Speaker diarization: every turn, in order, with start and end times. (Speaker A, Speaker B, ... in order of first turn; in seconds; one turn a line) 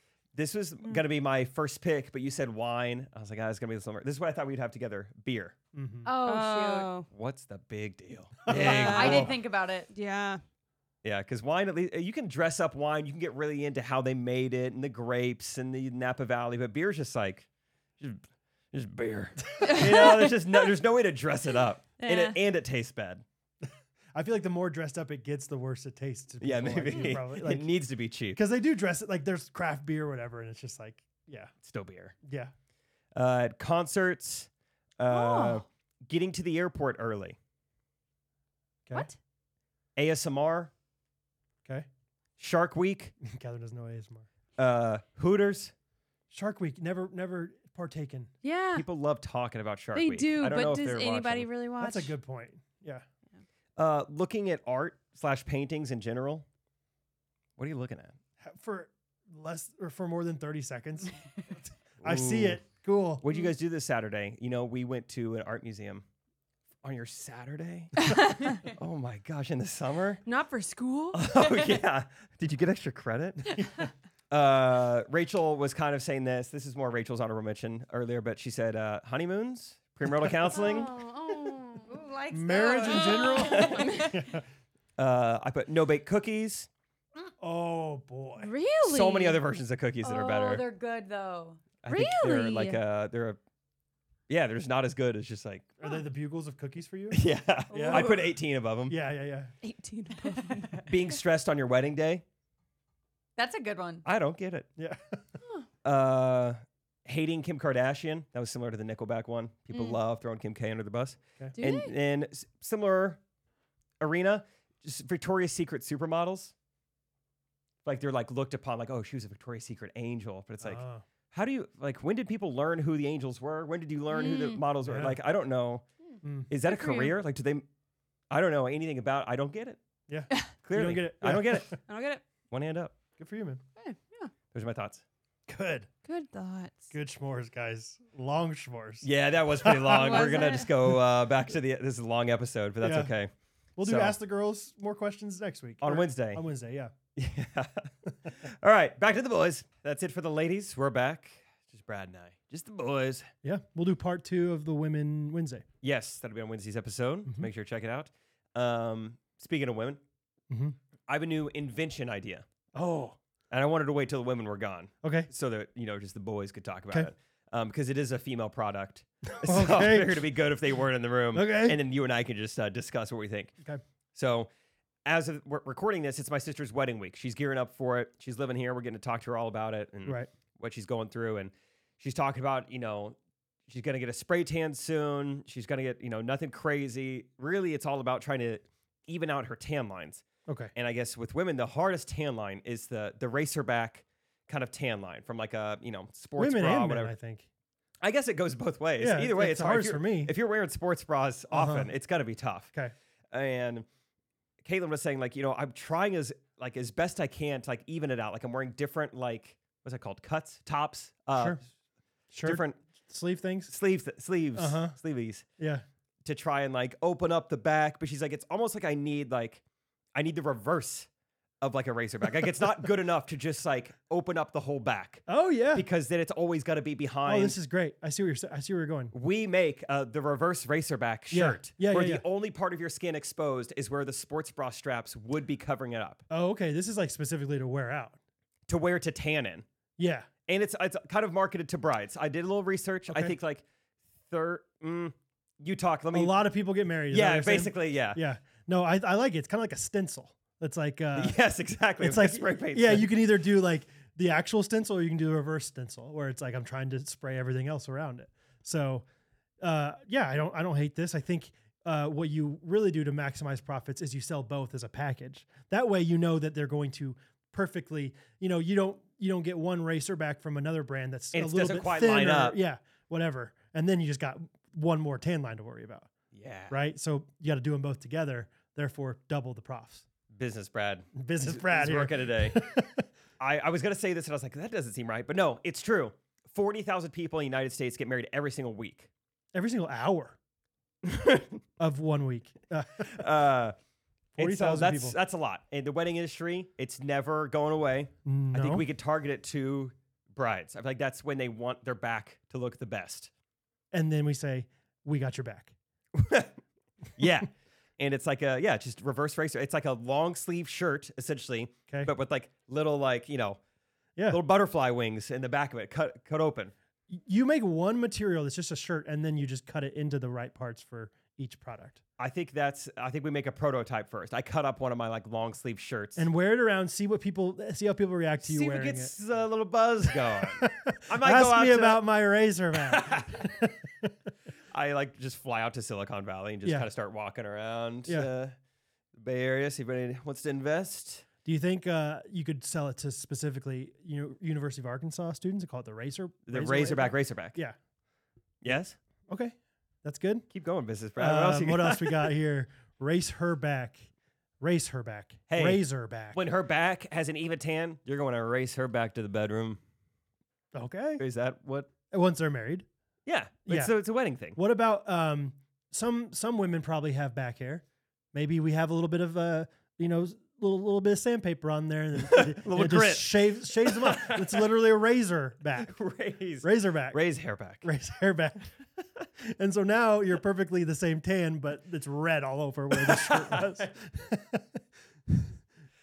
Speaker A: 0.3-5.5
Speaker B: 5.7-6.1
Speaker C: 6.0-6.9
Speaker D: 6.2-7.1
Speaker A: 7.1-9.3
Speaker B: 8.5-9.2
Speaker D: 8.5-9.3
Speaker C: 8.5-9.9
Speaker D: 9.9-10.4
Speaker A: 11.0-17.5
Speaker A: 18.0-23.2
Speaker B: 19.6-20.0
Speaker D: 19.6-20.3
Speaker D: 22.0-22.4
Speaker B: 23.6-27.7
Speaker A: 26.4-28.4
Speaker B: 28.3-31.5
Speaker A: 31.6-32.1
Speaker B: 32.2-32.5
Speaker A: 33.1-37.4
Speaker D: 35.1-35.6
Speaker A: 40.0-40.7
Speaker A: 42.4-43.1
Speaker B: 43.2-44.3
Speaker A: 44.6-45.7
Speaker B: 46.3-48.3
Speaker D: 48.4-48.9
Speaker A: 48.7-51.5
Speaker D: 49.9-52.1
Speaker B: 51.8-53.0
Speaker A: 53.8-56.5
Speaker A: 57.6-58.1
Speaker B: 58.4-61.2
Speaker B: 62.0-63.2
Speaker A: 62.0-62.6
Speaker A: 63.2-66.0
Speaker A: 66.8-70.2
Speaker D: 68.0-68.6
Speaker D: 70.2-71.2
Speaker A: 71.1-73.6
Speaker B: 73.5-73.8
Speaker A: 74.3-80.9
Speaker D: 80.5-82.0
Speaker C: 81.9-84.0
Speaker B: 82.3-84.4
Speaker D: 82.5-84.2
Speaker A: 83.5-83.8
Speaker A: 85.0-86.7
Speaker B: 87.4-88.5
Speaker D: 88.4-89.4
Speaker A: 88.8-90.6
Speaker C: 90.0-91.6
Speaker A: 91.8-93.4
Speaker D: 91.9-92.8
Speaker A: 94.3-95.8
Speaker B: 95.8-98.1
Speaker A: 97.1-99.0
Speaker C: 97.7-98.2
Speaker B: 98.9-99.5
Speaker D: 99.6-100.8
Speaker A: 100.8-102.2
Speaker C: 103.3-104.0
Speaker A: 104.0-104.7
Speaker B: 104.8-105.2
Speaker A: 105.8-113.2
Speaker D: 109.7-110.0
Speaker D: 111.6-111.9
Speaker A: 114.0-116.5
Speaker A: 117.8-125.8
Speaker B: 120.6-121.0
Speaker D: 124.1-124.6
Speaker B: 124.8-125.2
Speaker D: 126.1-127.2
Speaker B: 126.2-126.5
Speaker A: 126.5-127.6
Speaker A: 128.3-129.8
Speaker B: 130.1-131.8
Speaker A: 130.6-131.8
Speaker D: 131.9-132.2
Speaker A: 132.5-132.9
Speaker B: 133.2-133.6
Speaker D: 133.8-134.3
Speaker A: 134.5-135.0
Speaker B: 135.5-135.9
Speaker D: 136.0-136.9
Speaker B: 136.9-139.1
Speaker A: 139.0-143.3
Speaker B: 139.6-140.4
Speaker D: 139.9-140.7
Speaker B: 142.8-143.1
Speaker B: 143.8-146.9
Speaker A: 143.8-144.1
Speaker A: 145.8-146.4
Speaker A: 147.2-153.3
Speaker B: 153.4-155.6
Speaker A: 155.8-160.0
Speaker B: 160.5-160.8
Speaker A: 161.1-162.4
Speaker B: 162.7-163.2
Speaker A: 163.5-173.5
Speaker B: 165.0-165.3
Speaker B: 169.4-170.2
Speaker B: 171.3-171.8
Speaker A: 174.1-174.5
Speaker A: 175.0-190.2
Speaker B: 180.0-180.3
Speaker B: 190.4-190.7
Speaker A: 190.7-197.1
Speaker B: 196.4-197.4
Speaker A: 198.0-202.7
Speaker B: 199.0-200.3
Speaker B: 201.5-201.9
Speaker A: 203.3-203.8
Speaker A: 204.6-211.6
Speaker B: 211.3-211.6
Speaker B: 212.3-213.7
Speaker A: 212.4-212.8
Speaker A: 213.7-215.4
Speaker B: 214.6-214.9
Speaker B: 215.6-215.8
Speaker A: 216.2-219.6
Speaker A: 220.1-221.1
Speaker A: 221.6-227.6
Speaker B: 225.3-225.8
Speaker B: 227.2-229.1
Speaker A: 229.1-236.2
Speaker B: 231.3-232.2
Speaker B: 236.3-238.2
Speaker A: 238.7-239.7
Speaker B: 240.0-240.3
Speaker A: 240.5-243.6
Speaker B: 243.1-243.3
Speaker A: 244.3-246.4
Speaker B: 246.1-251.4
Speaker A: 247.1-248.2
Speaker A: 251.1-253.1
Speaker B: 252.0-259.1
Speaker B: 259.6-276.1
Speaker A: 271.3-272.6
Speaker A: 276.3-276.8
Speaker B: 276.7-280.0
Speaker A: 280.3-282.6
Speaker B: 281.1-283.0
Speaker A: 283.4-289.1
Speaker B: 289.5-290.4
Speaker A: 291.0-291.6
Speaker B: 291.8-293.2
Speaker A: 293.0-293.8
Speaker B: 294.4-295.2
Speaker A: 294.4-303.3
Speaker B: 298.2-298.8
Speaker B: 303.9-305.7
Speaker A: 306.1-306.6
Speaker A: 307.1-313.6
Speaker A: 314.3-316.7
Speaker B: 317.1-322.0
Speaker A: 322.2-326.3
Speaker B: 326.1-329.1
Speaker A: 328.4-332.0
Speaker B: 330.4-334.1
Speaker A: 332.9-333.5
Speaker A: 334.7-338.5
Speaker A: 339.1-341.2
Speaker B: 341.4-347.8
Speaker A: 346.5-347.6
Speaker A: 348.6-349.0
Speaker B: 349.3-350.4
Speaker A: 350.5-352.3
Speaker B: 351.2-354.1
Speaker B: 354.6-356.4
Speaker A: 355.5-359.8
Speaker B: 360.7-361.2
Speaker A: 361.2-361.9
Speaker B: 362.1-362.9
Speaker A: 363.2-364.6
Speaker B: 363.7-363.9
Speaker B: 364.5-375.9
Speaker A: 372.2-374.6
Speaker A: 375.8-377.9
Speaker B: 376.6-377.2
Speaker B: 377.8-378.7
Speaker B: 379.4-385.5
Speaker A: 382.9-383.9